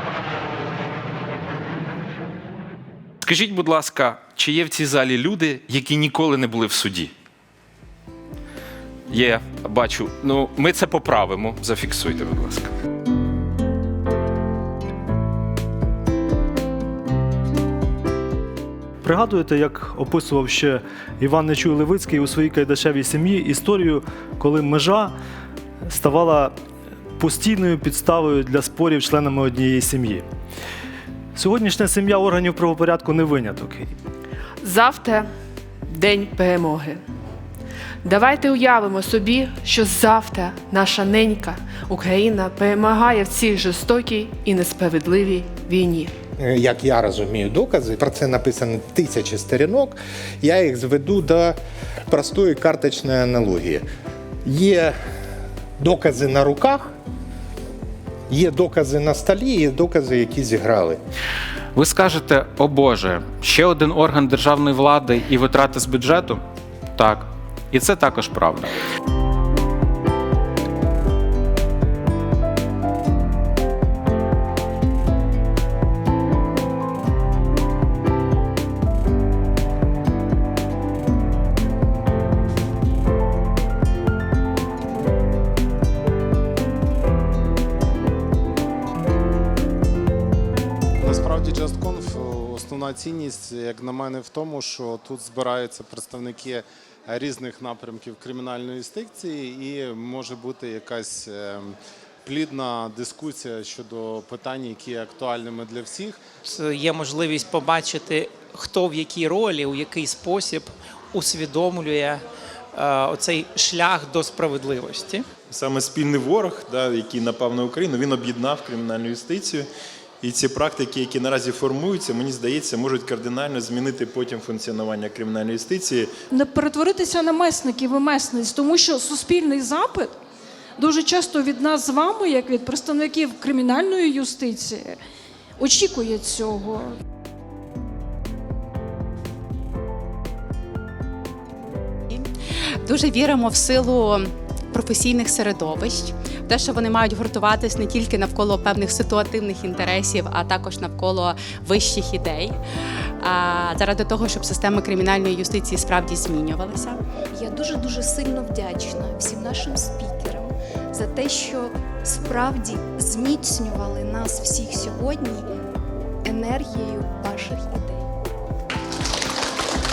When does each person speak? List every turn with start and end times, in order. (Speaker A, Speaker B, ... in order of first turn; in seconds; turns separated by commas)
Speaker A: 3.2-7.1, Speaker A: 9.1-12.7, Speaker B: 19.0-25.1, Speaker B: 25.8-26.5, Speaker B: 27.2-30.2, Speaker B: 31.3-33.9, Speaker C: 34.6-35.3, Speaker C: 35.9-37.0, Speaker C: 38.0-46.1, Speaker D: 46.4-53.9, Speaker D: 54.4-55.0, Speaker D: 55.8-56.9, Speaker D: 58.3-61.0, Speaker A: 61.7-66.4, Speaker A: 67.0-68.7, Speaker E: 91.0-106.2, Speaker F: 106.4-112.2, Speaker F: 112.8-115.2, Speaker G: 115.5-119.7, Speaker G: 120.2-126.1, Speaker H: 126.3-130.2, Speaker H: 130.8-135.0, Speaker H: 135.6-136.9, Speaker I: 142.8-152.6, Speaker I: 153.2-157.0, Speaker J: 157.3-165.4, Speaker J: 166.3-168.0